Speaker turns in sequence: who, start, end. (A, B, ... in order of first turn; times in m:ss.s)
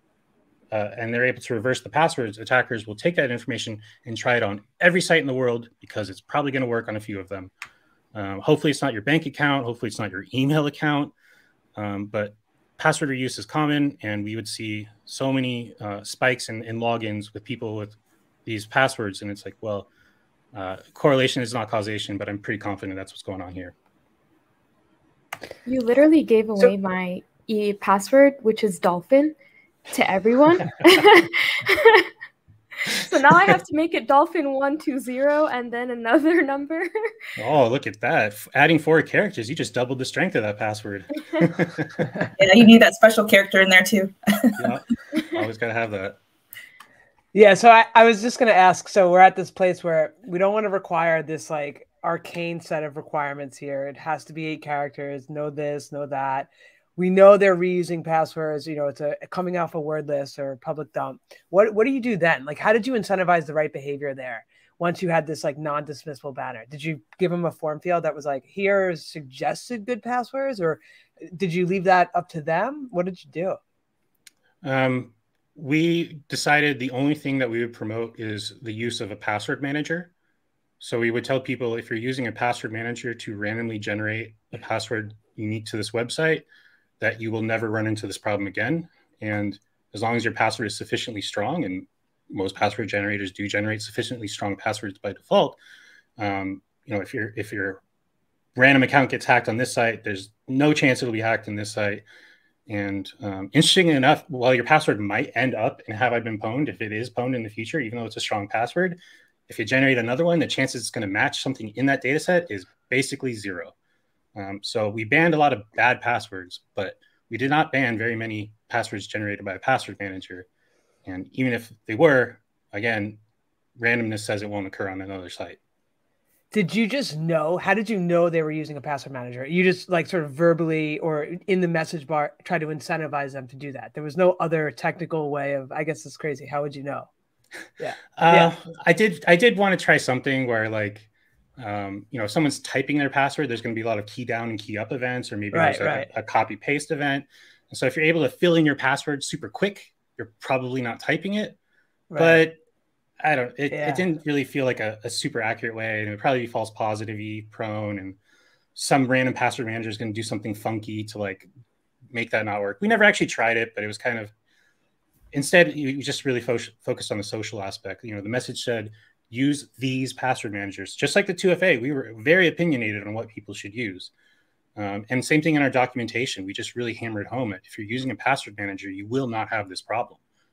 0:00.7-0:07.5 A
0:08.1-0:11.1 A
0:11.8-0:19.9 A
0:20.5-0:23.7 A
0:25.6-0:29.3 B
0:29.9-0:32.1 B
0:32.8-0:36.9 B
0:37.4-0:42.1 A
0:42.4-0:44.6 C
0:44.6-0:46.2 A
0:47.3-1:13.6 D
1:14.6-1:20.1 A
1:20.8-1:26.4 A
1:27.0-1:35.6 A
1:36.2-1:37.8 A
1:38.6-1:42.0 A
1:42.7-1:53.7 A
1:54.3-2:00.5 A
2:01.0-2:03.2 A
2:03.8-2:05.6 A
2:06.5-2:17.1 D
2:17.8-2:18.5 D
2:18.2-2:31.6 A
2:25.5-2:26.1 D
2:32.1-2:32.4 D
2:32.2-2:32.6 A
2:33.2-2:38.2 A
2:33.7-2:34.0 D
2:38.7-2:41.5 A
2:42.1-2:44.3 A
2:45.3-2:54.1 A
2:54.8-3:00.2 A